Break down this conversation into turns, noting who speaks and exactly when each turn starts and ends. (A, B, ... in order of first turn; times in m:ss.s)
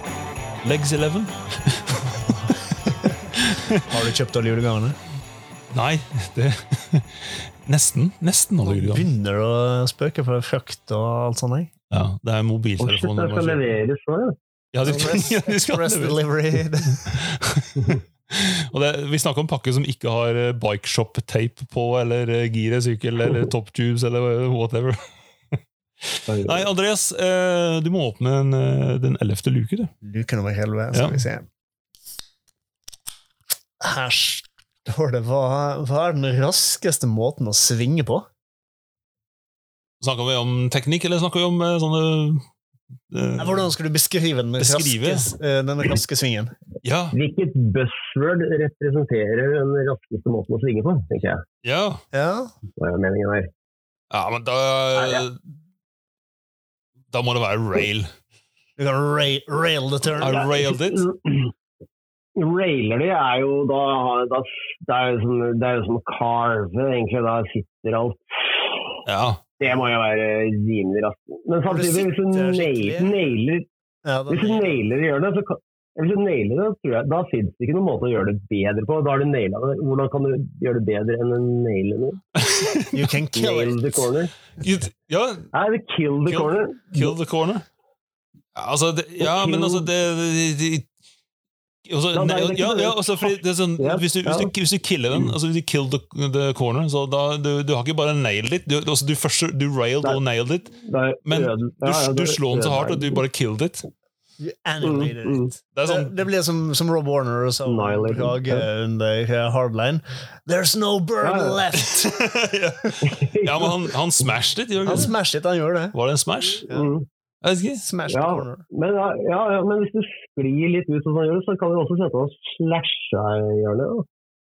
0:00.6-0:02.5 A
0:03.0-0:03.8 A
0:03.9-0:05.0 B
0:05.7-0:09.1 A
0:08.6-0:11.7 B
0:11.9-0:13.8 A
0:12.8-0:14.3 C
0:14.7-0:25.0 A
0:14.8-0:17.0 B
0:26.3-0:26.7 C
0:26.4-0:29.9 A
0:30.0-0:31.5 B
0:30.9-0:31.2 A
0:33.8-0:38.3 B
0:40.0-0:42.4 A
0:43.1-0:43.7 A
0:43.4-0:46.5 B
0:44.6-0:45.3 A
0:46.8-0:47.2 A
0:47.1-0:51.4 C
0:51.6-0:52.0 A
0:52.1-0:52.5 B
0:52.8-0:53.5 C
0:54.1-0:55.4 A
0:55.0-0:55.2 C
0:57.1-0:58.1 A
0:58.8-1:00.5 B
1:00.2-1:01.0 A
1:00.2-1:01.5 C
1:02.4-1:08.7 C
1:09.0-1:09.4 A
1:09.6-1:13.7 C
1:11.7-1:13.2 B
1:14.0-1:14.8 B
1:14.3-1:22.2 C
1:22.4-1:23.0 A
1:22.9-1:24.1 B
1:23.3-1:24.3 C
1:24.6-1:25.5 A
1:25.5-1:27.2 C
1:26.2-1:27.6 A
1:28.5-1:30.9 A
1:29.2-1:29.9 C
1:31.8-1:43.9 A
1:32.1-1:34.5 C
1:40.7-1:43.2 C
1:44.4-1:52.2 B
1:44.8-1:45.5 C
1:45.7-1:46.1 A
1:47.7-1:48.7 C
1:51.2-1:51.6 C
1:51.8-1:55.1 A
1:53.0-1:53.8 C
1:54.8-1:56.0 B
1:55.9-1:56.7 A
1:56.7-1:57.0 C
1:57.4-1:57.8 A
1:57.8-1:58.6 B
1:58.1-2:04.0 C